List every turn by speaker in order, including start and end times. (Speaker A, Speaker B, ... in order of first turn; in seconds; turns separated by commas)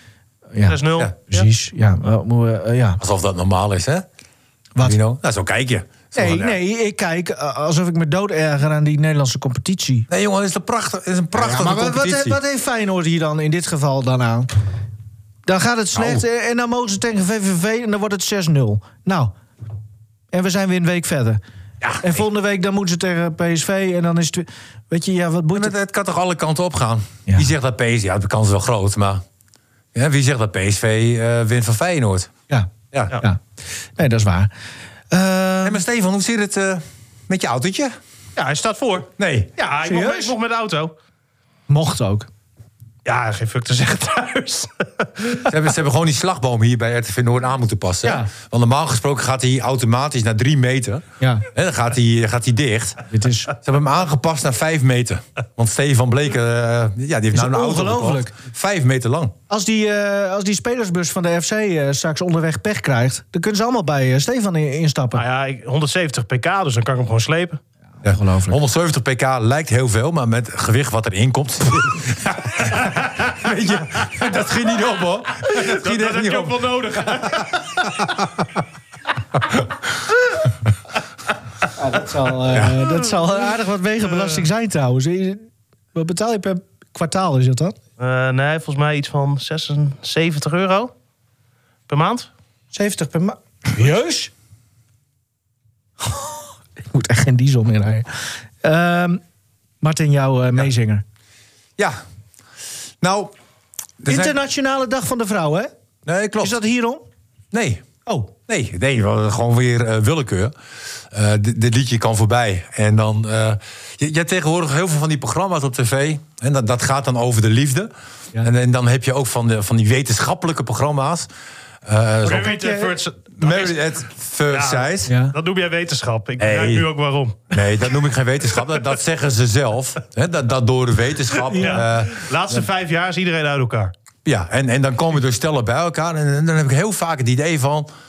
Speaker A: 0.6-3.0, Speaker B: 0.7-1.5, Speaker C: 3.0-4.1, Speaker C: 4.8-6.6, Speaker A: 6.2-10.1, Speaker C: 10.1-12.4, Speaker A: 11.3-14.5, Speaker A: 15.5-19.3, Speaker C: 15.9-16.2, Speaker A: 20.3-21.4, Speaker C: 21.8-22.1, Speaker A: 22.0-25.8, Speaker C: 25.6-29.2, Speaker C: 29.9-32.3, Speaker A: 32.5-33.4, Speaker A: 34.0-34.5, Speaker A: 35.1-35.8, Speaker C: 35.6-38.0, Speaker B: 38.4-40.9, Speaker C: 39.2-39.5, Speaker A: 39.9-40.3, Speaker A: 41.7-42.3, Speaker B: 43.0-45.5, Speaker C: 45.5-53.0, Speaker A: 48.0-48.3, Speaker A: 51.2-51.5, Speaker A: 53.1-53.5, Speaker C: 53.5-59.3, Speaker A: 57.3-58.3, Speaker A: 59.5-65.2, Speaker B: 65.1-67.6, Speaker A: 68.0-68.6, Speaker C: 68.0-78.5, Speaker B: 75.4-78.0, Speaker A: 81.7-87.8, Speaker C: 82.5-82.8, Speaker B: 88.0-90.9, Speaker B: 91.9-92.3, Speaker A: 92.7-94.3, Speaker A: 96.0-98.1, Speaker A: 98.6-99.2, Speaker A: 99.8-101.0, Speaker C: 103.0-103.3, Speaker C: 104.0-104.4, Speaker A: 104.1-105.7, Speaker C: 106.1-106.5, Speaker A: 106.4-107.0, Speaker C: 107.5-107.8, Speaker A: 108.1-108.3, Speaker C: 108.5-110.5, Speaker C: 111.1-121.3, Speaker C: 121.8-122.5, Speaker B: 122.2-123.9, Speaker A: 122.2-123.0, Speaker C: 123.4-125.1, Speaker B: 124.5-127.6, Speaker A: 125.1-125.3, Speaker C: 126.4-126.9, Speaker C: 127.5-132.7, Speaker A: 131.5-131.8, Speaker B: 131.6-133.9, Speaker C: 134.2-137.9